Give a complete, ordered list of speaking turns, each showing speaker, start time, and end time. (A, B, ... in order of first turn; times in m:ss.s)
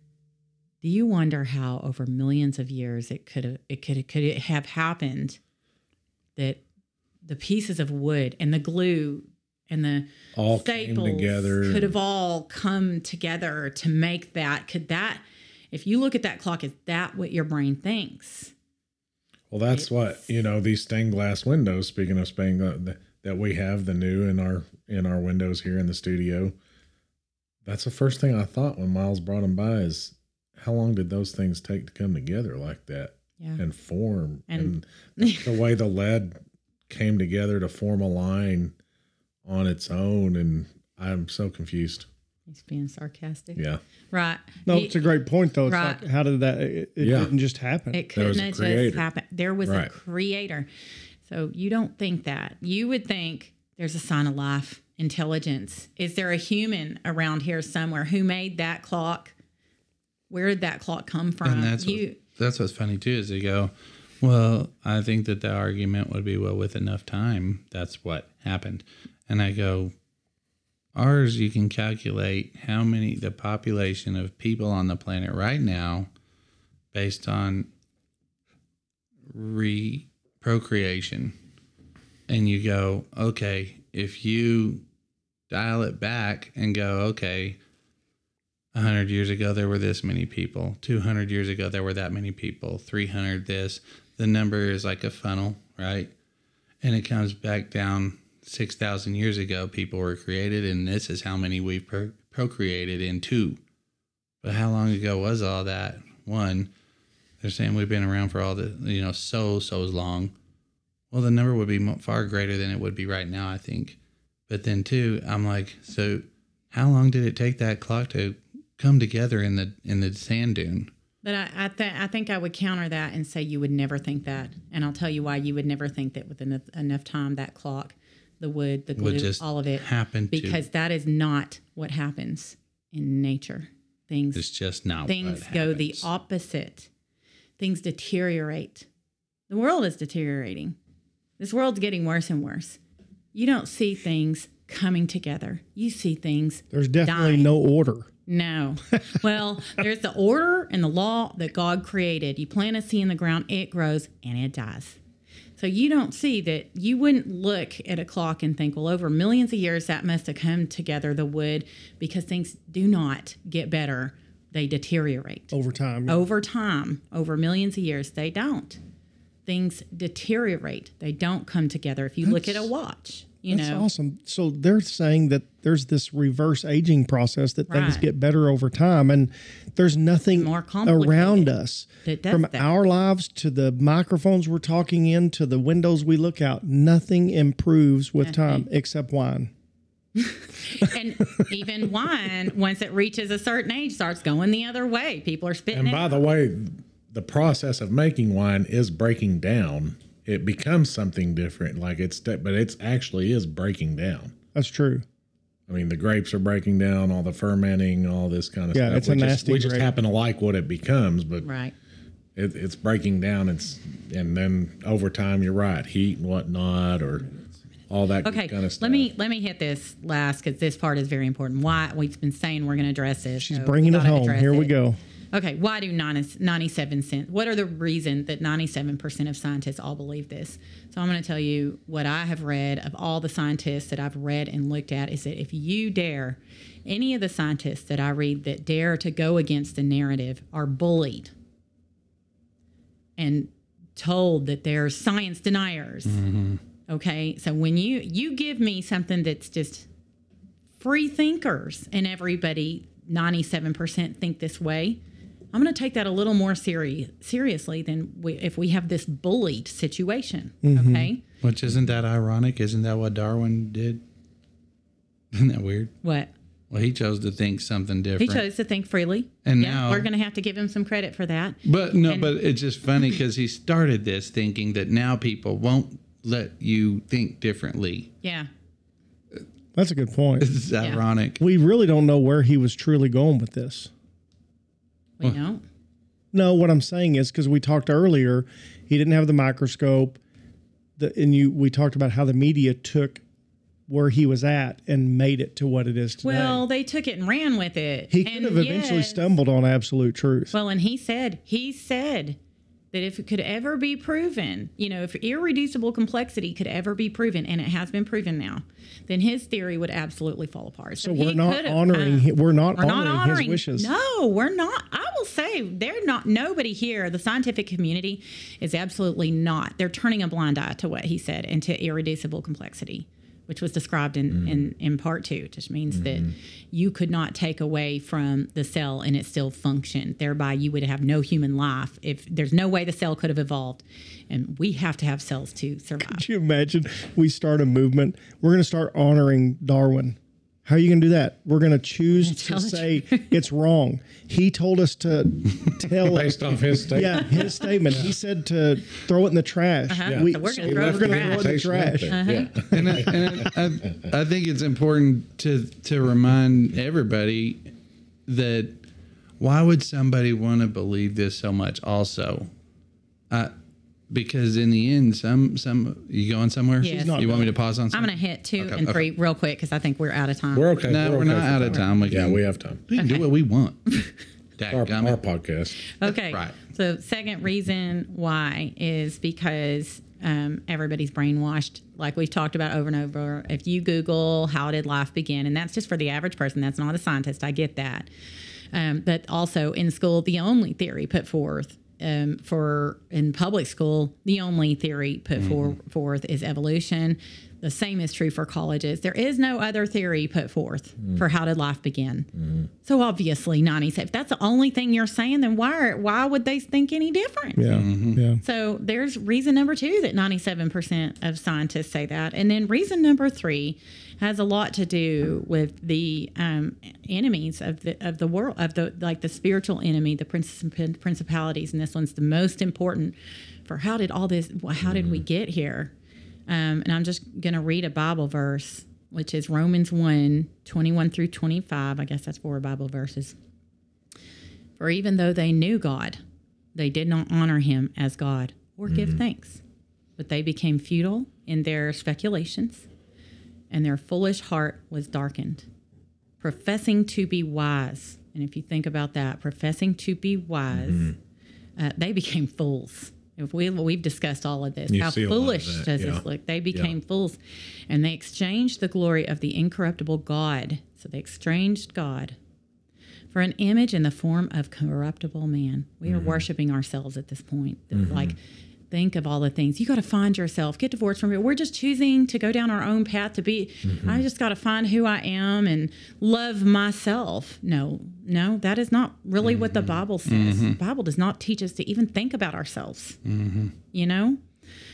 0:00.8-0:05.4 A
0:06.4-0:06.6 A
0:07.2-0:18.5 A
0:10.4-0:11.9 B
0:19.5-0:26.6 B
0:19.7-0:20.2 A
0:27.6-0:38.7 B
0:34.5-0:35.5 A
0:39.4-0:42.1 B
0:42.5-0:43.6 A
0:43.6-0:43.8 B
0:44.1-0:45.0 A
0:44.7-0:48.0 C
0:45.7-0:46.0 A
0:47.0-0:47.3 B
0:47.9-0:50.7 A
0:48.2-0:49.0 B
0:49.6-0:49.9 B
0:51.3-0:59.4 A
1:00.3-1:02.2 A
1:01.4-1:09.9 D
1:10.9-1:16.1 D
1:16.9-1:17.7 D
1:19.3-1:21.4 D
1:22.3-1:24.8 D
1:25.5-1:27.6 D
1:28.7-1:36.1 D
1:36.8-1:43.6 D
1:44.4-1:46.7 D
1:47.4-1:50.3 D
1:51.1-1:54.0 D
1:54.5-2:00.9 D
2:01.2-2:14.4 A
2:09.0-2:10.6 D
2:14.3-2:16.1 D
2:15.1-2:16.9 A
2:17.6-2:18.9 A
2:19.5-2:20.8 A
2:21.4-2:22.8 A
2:23.3-2:27.5 A
2:26.7-2:28.1 C
2:28.3-2:35.0 A
2:35.6-2:45.5 A
2:45.5-2:46.2 C
2:46.1-2:48.8 A
2:49.5-2:53.9 A
2:52.2-2:52.7 C
2:53.5-3:09.5 C
2:57.7-2:58.1 A
3:00.4-3:01.5 A
3:02.0-3:02.7 A
3:08.2-3:08.7 A
3:10.2-3:16.3 A
3:15.7-3:24.3 B
3:24.6-3:25.0 C
3:25.7-3:31.5 B
3:28.7-3:29.9 C
3:31.4-3:31.7 A
3:32.4-3:37.4 B
3:37.9-3:39.1 B
3:38.2-3:44.7 A
3:43.4-3:45.0 C
3:45.3-4:01.3 A
4:03.2-4:06.2 A
4:06.1-4:06.6 D
4:06.9-4:09.9 A
4:10.8-4:15.0 A
4:15.5-4:21.2 A
4:20.6-4:21.1 C
4:21.4-4:24.0 D
4:25.3-4:25.9 D
4:26.0-4:26.3 A
4:26.7-4:28.4 D
4:28.2-4:32.3 A
4:29.4-4:30.1 D
4:31.6-4:38.1 D
4:38.2-4:38.5 A
4:39.7-4:40.5 C
4:40.4-4:41.4 D
4:41.4-4:43.9 C
4:45.2-4:45.6 A
4:46.3-4:50.2 C
4:51.0-4:53.2 C
4:53.9-4:56.6 C
4:56.2-4:59.3 A
4:58.1-5:00.5 C
5:00.5-5:02.4 A
5:02.9-5:36.2 A
5:11.0-5:13.9 C
5:24.3-5:24.6 B
5:25.9-5:26.3 B
5:36.0-5:52.2 C
5:42.1-5:43.3 A
5:46.0-5:48.1 B
5:49.9-5:51.6 A
5:50.1-5:54.0 B
5:52.1-5:52.5 A
5:52.7-5:57.7 D
5:58.3-5:58.8 D
5:59.4-6:02.5 D
6:04.1-6:09.1 D
6:06.8-6:07.6 C
6:06.8-6:10.8 A
6:10.5-6:12.8 B
6:10.8-6:14.0 D
6:13.0-6:13.2 A
6:14.6-6:15.2 D
6:14.7-6:15.8 B
6:15.9-6:28.1 A
6:16.0-6:16.6 D
6:28.7-6:42.3 A
6:35.4-6:35.8 D
6:42.4-6:42.7 B
6:42.8-6:47.8 A
6:47.6-6:48.4 C
6:47.7-6:48.2 D
6:48.4-7:05.9 A
7:04.8-7:05.2 B
7:06.5-7:13.4 A
7:14.8-7:16.2 A
7:16.8-7:19.6 A
7:18.9-7:19.2 B
7:20.2-7:22.9 A
7:23.7-7:25.7 A
7:26.4-7:31.2 A
7:30.7-7:31.2 B
7:31.8-7:42.4 A
7:34.9-7:36.9 B
7:43.3-7:48.4 A
7:46.0-7:46.4 B
7:47.9-7:48.3 B
7:48.9-8:03.2 A
7:53.8-7:54.2 B
7:59.4-8:00.8 D
8:03.2-8:03.7 D
8:03.9-8:04.4 A